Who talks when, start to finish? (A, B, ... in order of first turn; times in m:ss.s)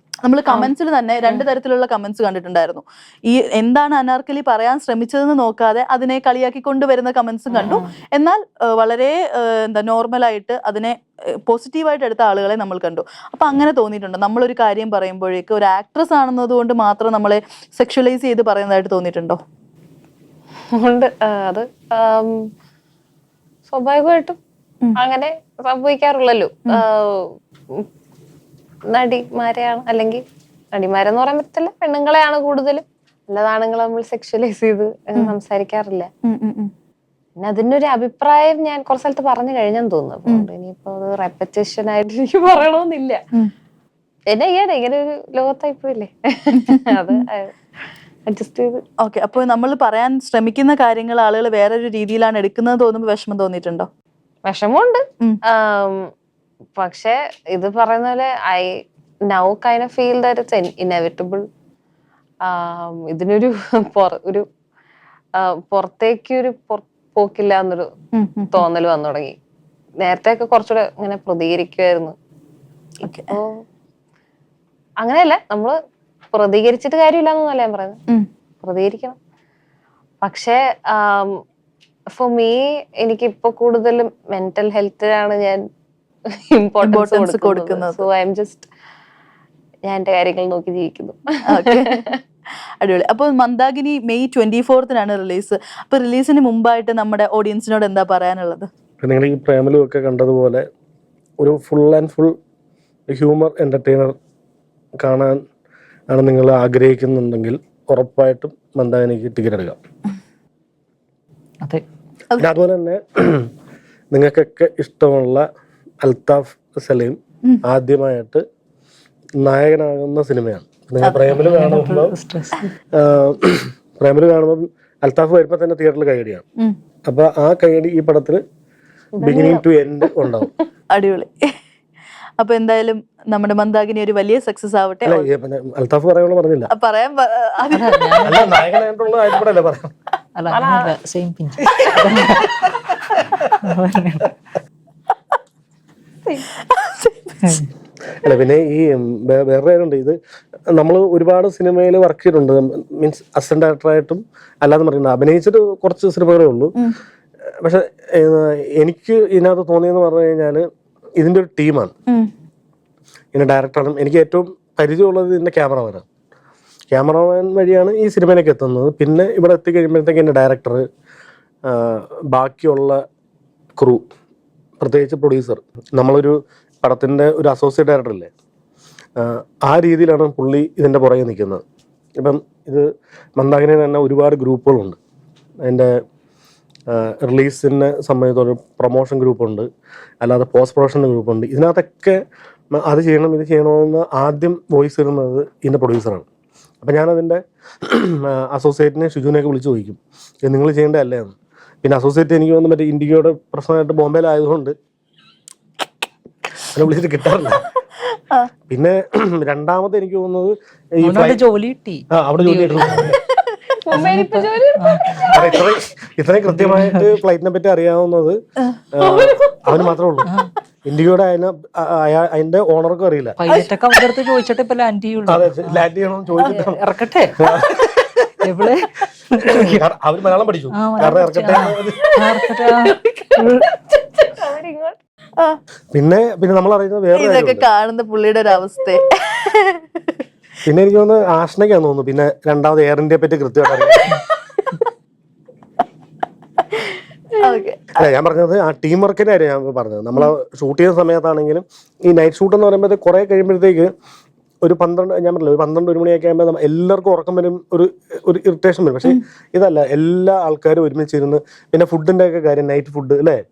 0:00.2-0:19.4 A
0:07.5-0:07.9 B
0:20.8-0:22.5 B
0:23.7-0:24.4 B
0:25.0-0:27.9 B
0:28.9-0:30.2 B
0:30.7-0:36.1 B
0:36.2-0:36.7 A
0:37.4-0:43.2 B
0:44.3-0:47.6 B
0:48.3-0:48.8 B
0:49.0-0:53.9 A
0:54.5-0:56.1 B
0:56.8-0:58.7 B
0:59.3-1:01.4 B
1:02.5-1:04.4 B
1:05.4-1:07.9 B
1:08.1-1:08.6 A
1:08.5-1:09.3 B
1:10.0-1:12.1 B
1:13.0-1:13.3 A
1:13.0-1:13.5 B
1:15.0-1:15.8 B
1:16.3-1:18.0 B
1:18.6-1:19.2 B
1:20.2-1:21.4 B
1:22.2-1:25.6 B
1:26.6-1:28.7 B
1:26.8-1:28.0 A
1:29.9-1:32.2 B
1:31.5-1:32.0 A
1:32.8-1:38.7 A
1:39.0-1:40.6 C
1:41.4-1:42.4 C
1:43.1-1:44.2 C
1:45.0-1:45.4 C
1:46.1-1:49.8 C
1:52.4-1:53.5 C
1:54.1-1:55.4 C
1:56.0-1:58.4 C
1:59.4-2:02.1 C
2:01.0-2:01.3 A
2:01.3-2:02.7 D
2:02.9-2:06.4 C
2:07.1-2:08.4 C
2:09.2-2:09.6 B
2:09.2-2:10.5 C
2:10.9-2:11.4 A
2:12.4-2:15.3 A
2:15.1-2:16.7 C
2:16.7-2:18.2 A
2:17.7-2:18.5 D
2:18.2-2:19.9 C
2:20.4-2:24.3 D
2:20.5-2:20.9 B
2:26.6-2:27.6 A
2:28.2-2:30.2 C
2:30.7-2:36.8 C
2:37.6-2:40.6 C
2:41.2-2:41.9 C
2:43.3-2:46.0 C
2:46.9-2:50.8 C
2:51.7-2:53.0 C
2:53.8-2:54.0 C
2:54.8-2:58.3 C
2:59.2-3:01.6 C
3:02.2-3:05.0 C
3:05.6-3:05.9 C
3:06.9-3:09.7 C
3:10.2-3:12.2 C
3:12.7-3:16.2 C
3:16.8-3:24.7 C
3:26.7-3:27.7 C
3:28.7-3:31.4 C
3:31.0-3:33.1 D
3:32.1-3:33.2 C
3:33.8-3:35.6 B
3:33.9-3:35.2 D
3:35.3-3:38.4 C
3:36.5-3:37.2 D
3:38.9-3:40.3 C
3:39.0-3:39.8 B
3:40.2-3:40.5 D
3:40.9-3:43.4 C
3:43.4-3:45.8 D
3:45.3-3:46.8 C
3:46.8-3:47.4 D
3:47.4-3:48.3 C
3:48.4-3:49.8 D
3:49.5-3:52.1 C
3:50.7-3:53.7 D
3:52.2-3:55.0 B
3:55.9-3:57.7 C
3:57.2-3:59.8 A
4:00.7-4:04.2 C
4:04.0-4:04.8 A
4:07.4-4:07.6 B
4:07.4-4:08.0 A
4:08.0-4:13.9 C
4:14.6-4:23.4 C